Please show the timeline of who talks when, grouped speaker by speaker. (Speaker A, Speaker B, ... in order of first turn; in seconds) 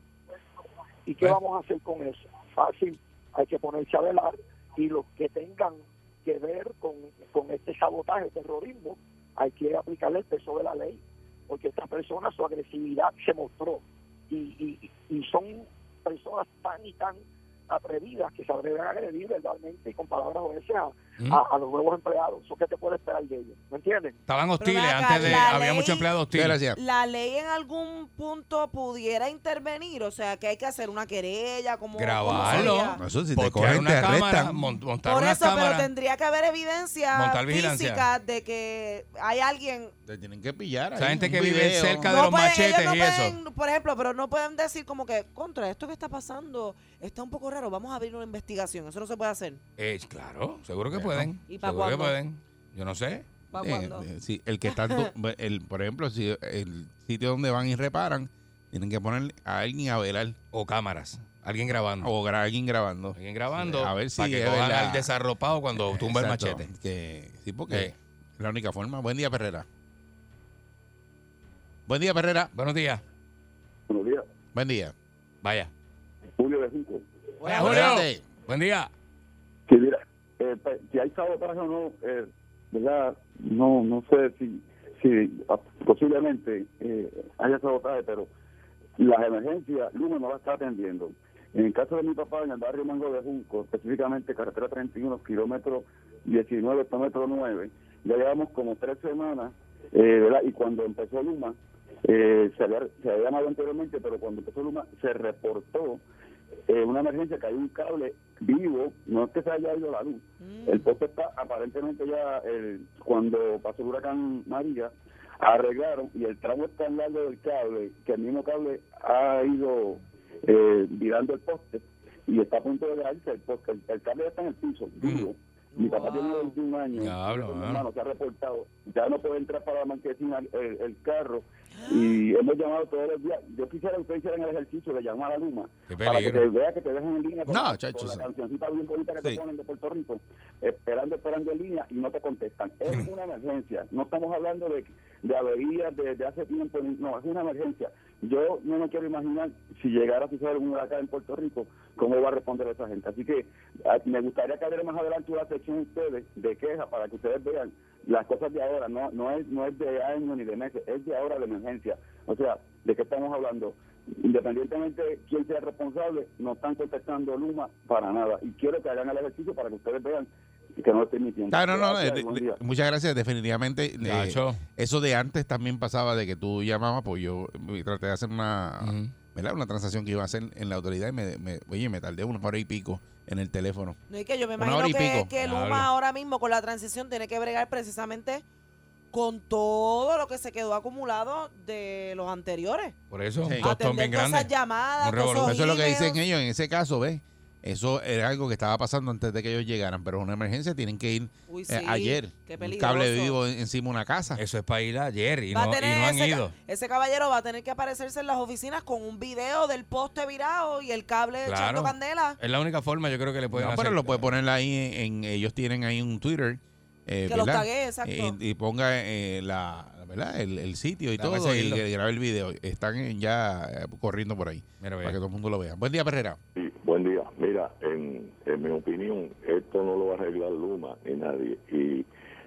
Speaker A: 1.1-24.2
Speaker B: 24.3-26.6, 32.0-35.9, 37.1-38.0, 41.0-43.4, 49.8-53.2, 60.5-62.1, 63.1-66.7, 67.7-67.9, 72.5-73.0, 75.4-75.7, 77.4-78.9, 127.0-127.8, 135.9-136.4, 174.0-174.6, 178.8-179.1, 185.4-185.9, 193.1-195.5, 204.3-206.5, 211.4-214.3, 221.2-221.8, 224.8-225.2
Speaker C: 24.6-26.1, 26.7-33.0, 35.0-39.9, 42.1-49.6, 51.5-52.1, 53.5-54.0, 54.6-55.1, 77.4-77.7, 110.4-110.9, 125.7-126.5, 131.7-132.2, 184.1-188.4, 189.1-192.9, 193.6-196.2, 201.5-203.4, 205.5-212.4, 217.3-218.3
Speaker D: 25.2-25.4, 26.3-26.8, 32.3-34.6, 40.0-42.1, 50.9-51.3, 53.6-60.4, 62.0-65.1, 65.7-69.7, 71.9-72.5, 74.5-74.9, 77.5-78.2, 125.0-125.3, 137.5-138.3, 171.5-184.0, 184.6-185.3, 195.4-204.4, 213.5-226.4
Speaker E: 73.9-74.2, 76.4-77.0, 79.7-88.3, 89.0-106.0, 106.7-172.6
Speaker F: 226.6-232.1